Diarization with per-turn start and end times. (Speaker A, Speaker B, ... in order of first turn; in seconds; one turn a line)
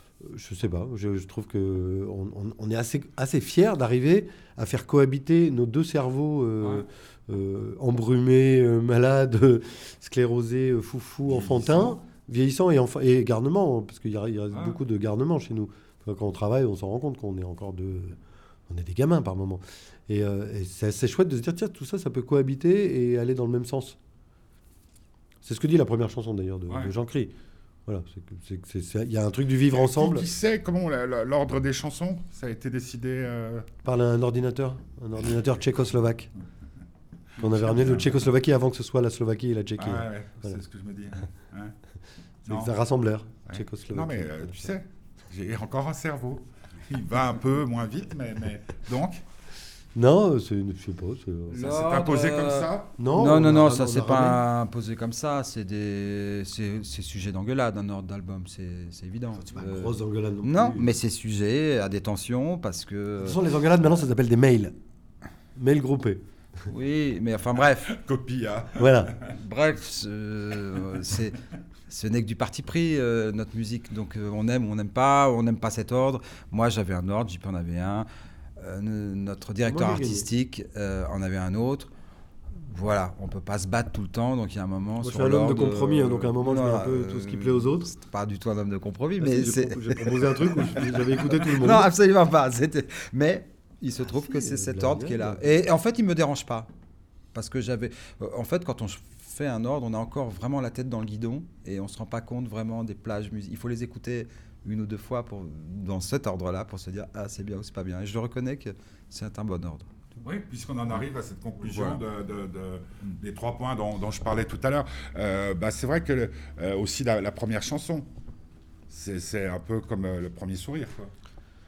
Speaker A: 0.2-24.0
Speaker B: 11.3-12.0
Speaker B: 14.5-14.8
Speaker A: 25.4-27.4
Speaker A: 27.9-30.3
Speaker B: 29.7-33.7
Speaker A: 33.8-36.3
Speaker A: 37.4-40.6
Speaker B: 37.6-38.1
Speaker B: 39.8-41.8
Speaker B: 42.5-42.7
Speaker A: 42.5-44.7
Speaker B: 43.5-49.2
Speaker A: 50.0-51.7
Speaker C: 51.5-63.4
Speaker B: 51.6-52.9
Speaker A: 53.0-54.4
Speaker A: 59.4-60.9
Speaker A: 63.2-64.8
Speaker A: 65.5-66.2
Speaker C: 66.7-67.9
Speaker B: 67.9-68.9
Speaker A: 68.8-69.1
Speaker C: 69.3-71.4
Speaker C: 71.9-81.9
Speaker A: 79.7-80.3
Speaker C: 82.5-96.7
Speaker A: 85.0-87.9
Speaker A: 89.2-91.9
Speaker A: 94.1-95.7
Speaker C: 97.3-109.9
Speaker B: 110.2-118.1
Speaker C: 111.7-112.0
Speaker B: 118.9-121.1